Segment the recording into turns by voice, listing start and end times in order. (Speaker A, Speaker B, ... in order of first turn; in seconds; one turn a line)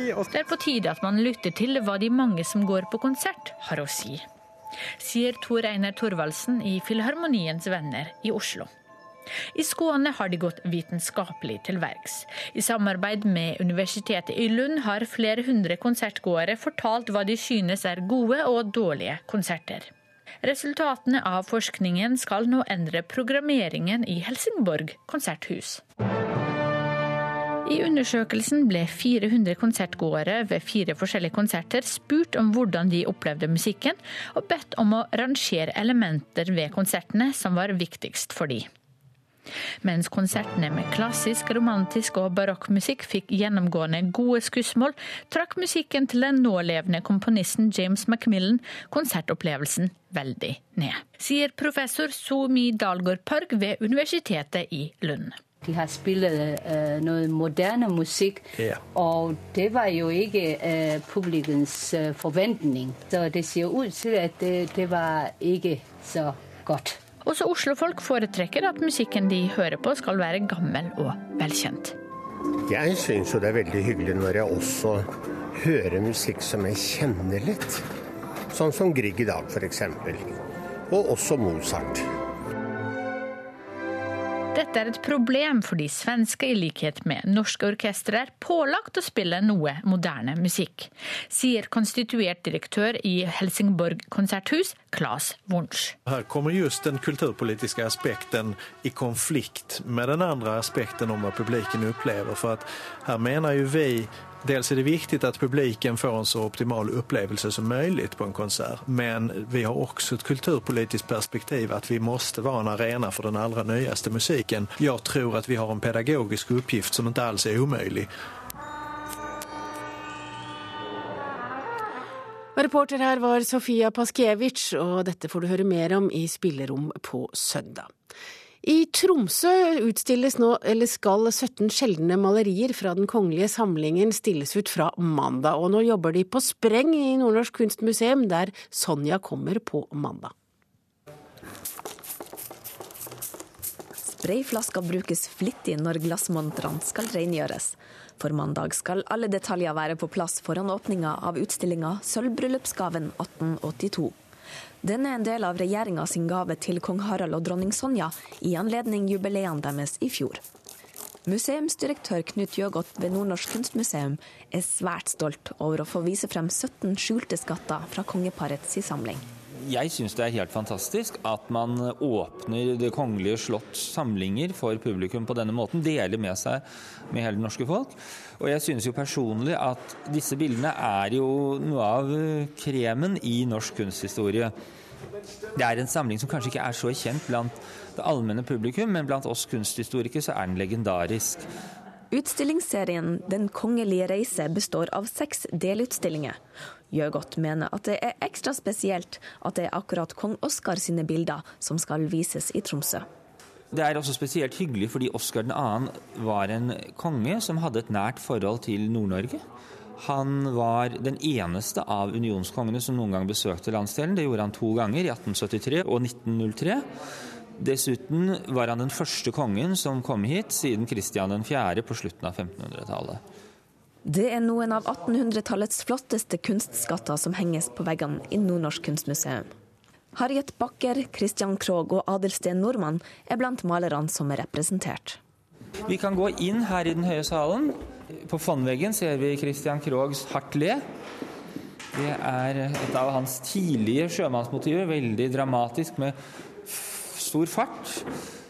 Speaker A: 0.3-4.3
Speaker A: 5.0-8.7
Speaker A: 9.5-19.9
Speaker A: 20.4-25.8
Speaker A: 27.6-38.7
Speaker A: 39.8-55.4
Speaker B: 55.6-67.0
Speaker C: 58.6-58.8
Speaker A: 67.2-72.0
Speaker D: 72.7-77.8
Speaker D: 78.5-80.3
Speaker D: 80.9-82.1
Speaker A: 84.5-96.0
Speaker C: 96.1-118.1
Speaker E: 122.6-127.9
Speaker E: 128.6-140.3
Speaker F: 144.1-154.2
Speaker F: 154.8-160.4
Speaker F: 161.3-169.2
Speaker G: 169.6-184.5
Speaker G: 185.6-191.5
Speaker F: 192.1-196.4
Speaker F: 196.9-203.1
Speaker G: 203.7-209.4
Speaker G: 210.0-216.9
Speaker G: 217.6-223.2
Speaker F: 224.1-229.5
Speaker F: 230.2-235.2
Speaker G: 235.8-240.8
Speaker G: 241.9-248.1